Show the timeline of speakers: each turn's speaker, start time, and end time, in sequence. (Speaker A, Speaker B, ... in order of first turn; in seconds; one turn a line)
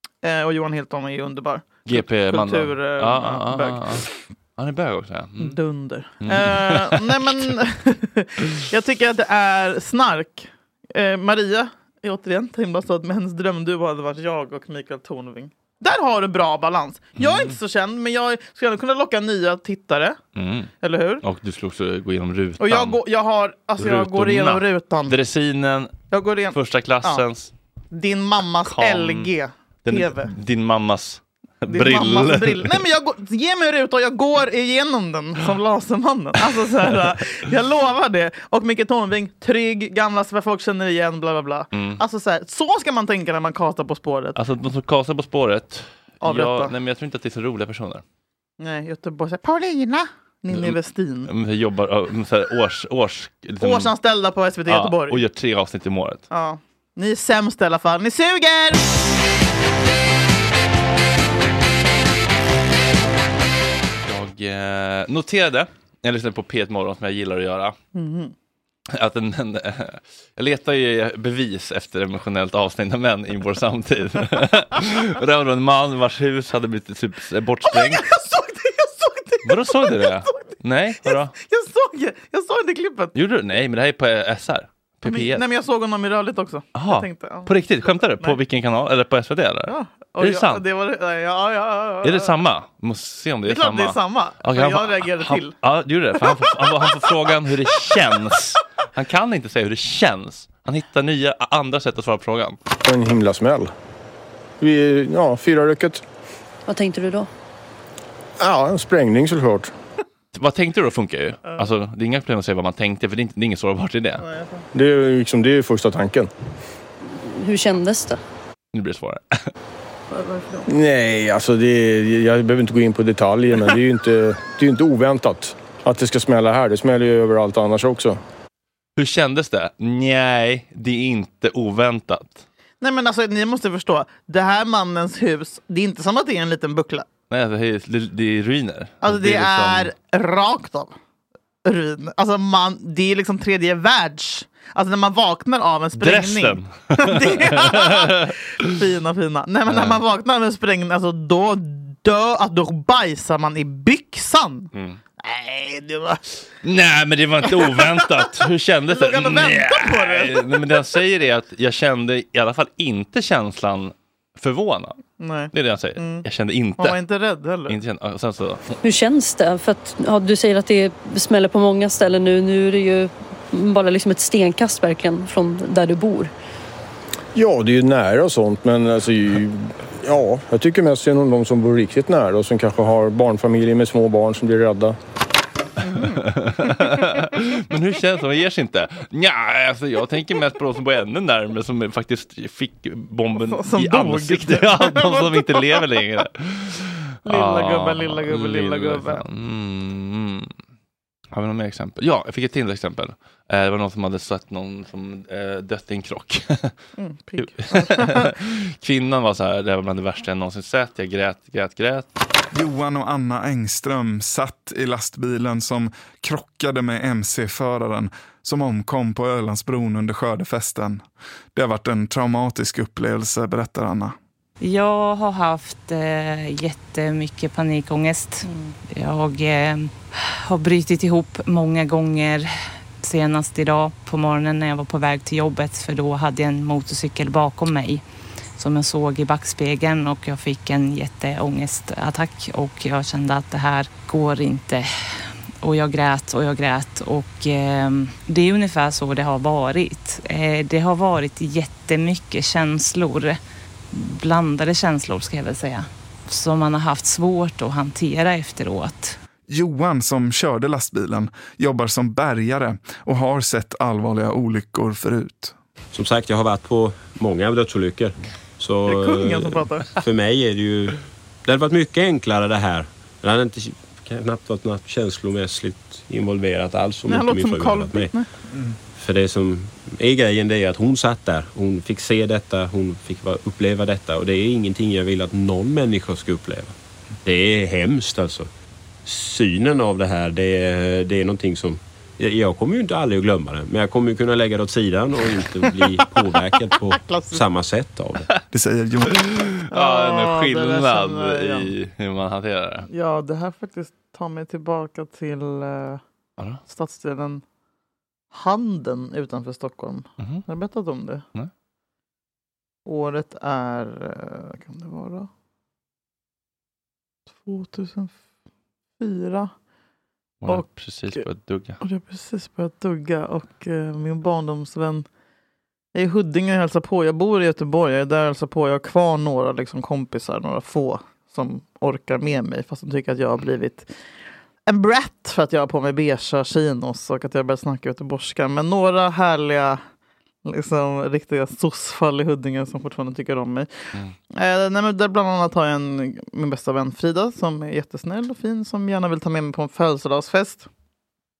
Speaker A: 0.2-4.1
Speaker B: 1.9-5.6
Speaker A: 5.4-20.2
Speaker B: 6.2-7.5
Speaker B: 17.2-17.6
Speaker B: 20.3-23.0
Speaker A: 20.8-21.2
Speaker A: 22.6-25.1
Speaker B: 23.8-26.0
Speaker A: 26.1-27.2
Speaker B: 26.5-27.5
Speaker A: 27.9-30.3
Speaker B: 28.6-29.3
Speaker B: 29.8-32.8
Speaker A: 31.7-44.4
Speaker B: 41.7-42.0
Speaker B: 44.4-48.0
Speaker A: 46.2-46.7
Speaker A: 48.6-51.3
Speaker B: 50.5-53.9
Speaker A: 53.6-55.2
Speaker B: 54.7-56.2
Speaker A: 56.3-58.8
Speaker B: 64.0-67.8
Speaker A: 67.9-68.3
Speaker B: 68.9-78.1
Speaker A: 77.7-80.4
Speaker B: 79.4-81.3
Speaker A: 81.0-83.1
Speaker B: 83.1-85.4
Speaker A: 85.0-87.5
Speaker B: 86.7-90.6
Speaker A: 89.7-92.3
Speaker B: 92.0-102.6
Speaker A: 93.5-95.5
Speaker A: 96.3-96.8
Speaker C: 102.8-103.7
Speaker C: 104.6-106.0
Speaker D: 106.7-107.3
Speaker C: 108.4-109.7
Speaker B: 110.3-114.2
Speaker A: 114.2-114.7
Speaker C: 114.7-116.3
Speaker D: 117.1-118.2
Speaker B: 118.7-119.5
Speaker A: 120.1-120.7
Speaker C: 120.7-128.2
Speaker B: 129.0-132.4
Speaker A: 132.8-137.1
Speaker B: 137.3-139.9
Speaker A: 139.0-140.9
Speaker A: 141.6-156.2
Speaker B: 146.0-148.7
Speaker B: 149.7-150.0
Speaker B: 154.7-155.0
Speaker B: 156.6-165.0
Speaker A: 158.9-160.4
Speaker A: 165.2-166.2
Speaker B: 165.5-167.0
Speaker A: 166.8-167.8
Speaker B: 167.7-168.8
Speaker D: 168.8-176.3
Speaker C: 177.3-184.9
Speaker A: 185.8-186.2
Speaker B: 185.9-200.5
Speaker A: 193.4-195.8
Speaker A: 197.2-199.2
Speaker B: 201.3-206.7
Speaker A: 207.0-208.3
Speaker B: 207.4-212.1
Speaker E: 212.5-224.1
Speaker F: 224.6-232.5
Speaker F: 233.0-238.0
Speaker F: 238.6-244.9
Speaker F: 245.6-253.4
Speaker F: 253.9-259.2
Speaker E: 259.5-265.5
Speaker G: 265.9-278.1
Speaker A: 268.9-269.9
Speaker A: 277.1-278.3
Speaker G: 278.9-286.7
Speaker G: 287.2-288.5
Speaker G: 289.0-298.3
Speaker A: 296.7-297.4
Speaker E: 298.5-299.3
Speaker B: 299.1-302.9
Speaker A: 299.7-301.7
Speaker A: 302.9-306.0
Speaker A: 306.7-307.4
Speaker A: 308.3-311.2
Speaker B: 310.2-310.4
Speaker A: 312.9-315.3
Speaker A: 317.4-318.1
Speaker A: 319.0-319.5
Speaker B: 320.4-321.8
Speaker A: 320.5-321.2
Speaker A: 321.8-325.1
Speaker A: 325.9-333.9
Speaker A: 334.7-339.8
Speaker A: 340.4-343.7
Speaker A: 344.3-350.7